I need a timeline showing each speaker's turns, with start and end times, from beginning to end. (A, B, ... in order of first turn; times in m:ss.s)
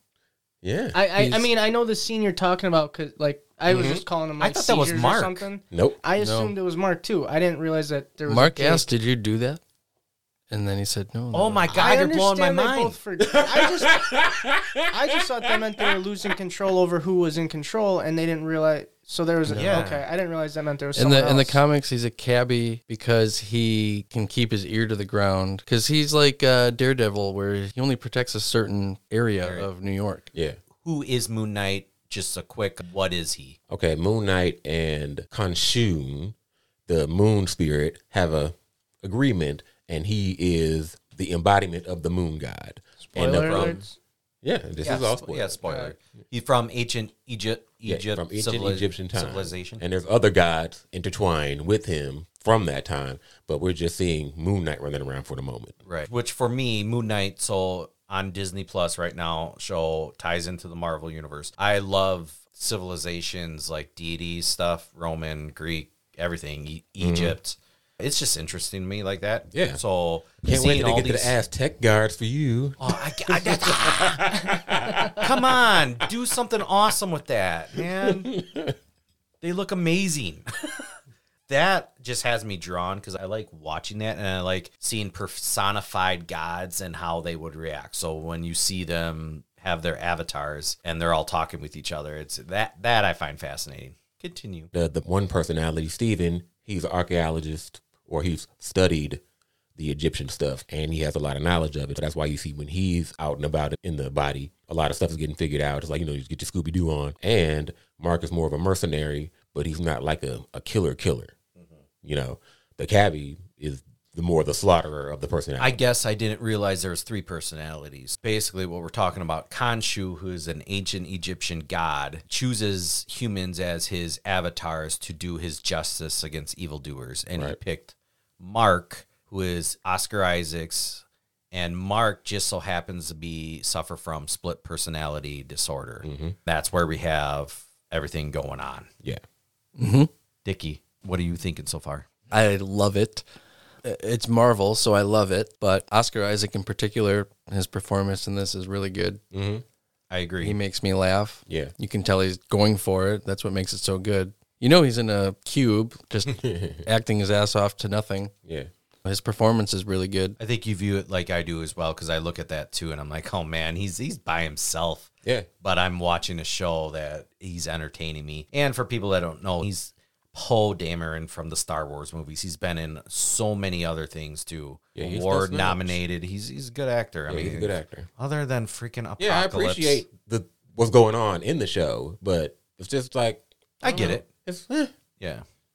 0:00.6-0:01.0 A
0:00.9-0:08.9 B
0:01.2-0:01.5 C
0:03.7-0:04.0 A
0:04.4-0:05.5 D
0:05.7-0:06.0 A
0:06.2-0:06.5 C
0:08.3-0:09.6 C
0:10.5-0:11.7 C
0:11.3-0:13.0 D
0:11.7-0:14.2 B
0:13.2-0:15.1 A
0:14.9-0:21.6 B
0:15.6-0:15.9 A
0:19.5-0:19.8 C
0:19.6-0:20.1 D
0:21.0-0:30.3 C
0:29.4-0:29.7 D
0:30.3-0:30.6 A
0:30.8-0:33.6 D
0:33.7-0:36.4 A
0:36.9-0:43.8 A
0:43.0-0:44.0 B
0:43.2-0:43.8 D
0:44.4-0:45.6 A
0:44.8-0:49.8 D
0:45.6-0:45.9 B
0:47.8-0:55.8 A
0:55.9-1:11.3 D
1:07.0-1:07.4 A
1:09.5-1:09.8 A
1:10.4-1:16.1 A
1:12.8-1:14.3 D
1:15.2-1:18.4 D
1:17.8-1:18.8 A
1:19.4-1:20.7 D
1:21.5-1:34.7 D
1:34.7-1:39.2 A
1:39.8-1:51.3 A
1:52.0-1:55.8 A
1:55.6-2:18.9 D
2:16.0-2:16.4 A
2:19.8-2:20.1 C
2:20.4-2:22.1 D
2:22.3-2:23.2 C
2:23.8-2:29.2 C
2:29.3-2:29.6 A
2:30.1-2:30.6 D
2:30.4-2:38.3 C
2:31.5-2:31.7 A
2:36.2-2:36.9 A
2:39.0-2:40.4 C
2:40.4-2:45.1 D
2:45.6-3:00.0 D
2:55.0-2:56.0 A
2:57.3-2:58.1 A
2:59.2-3:04.9 A
3:03.8-3:04.3 D
3:05.2-3:05.4 D